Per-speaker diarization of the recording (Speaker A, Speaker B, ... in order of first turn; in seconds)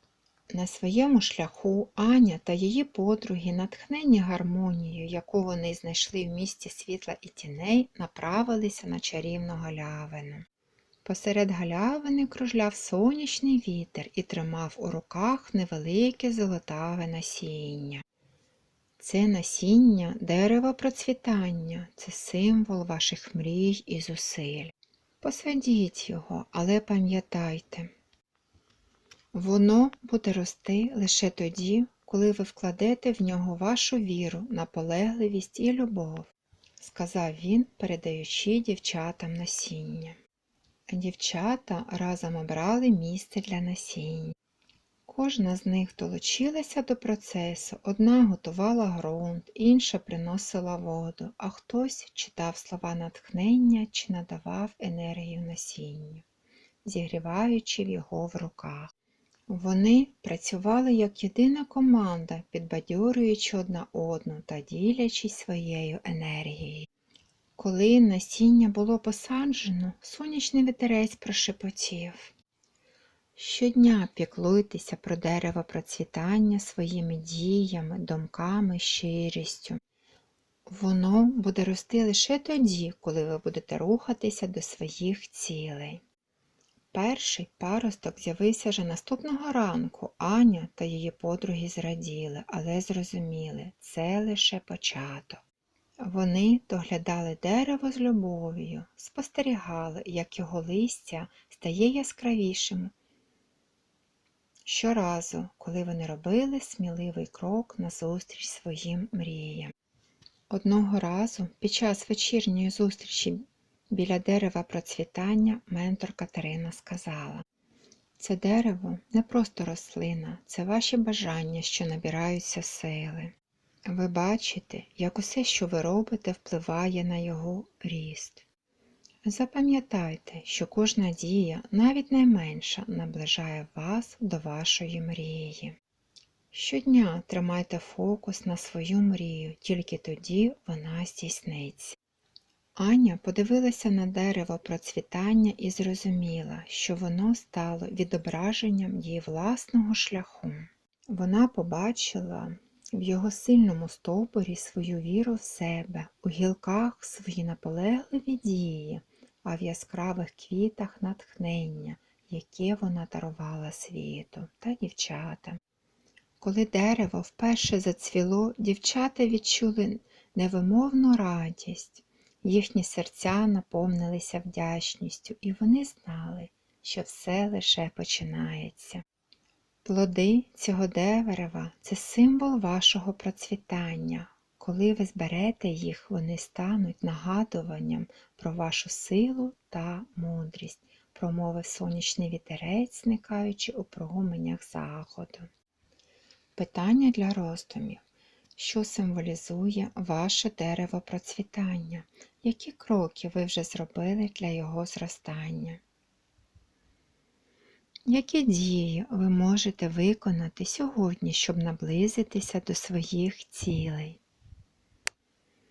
Speaker A: 0.5-10.4, 11.0-18.0, 19.0-27.9, 29.3-40.2, 40.9-44.3, 45.0-56.2, 56.8-58.9, 59.5-66.9, 67.5-72.3, 73.3-79.8, 80.7-86.0, 86.9-95.4, 96.0-102.9, 104.7-109.7, 110.5-117.4, 118.2-123.3, 123.8-128.4, 129.2-135.8, 136.5-141.9, 142.8-165.6, 166.4-179.0, 179.8-195.5, 196.6-198.0, 198.6-205.8, 208.1-214.2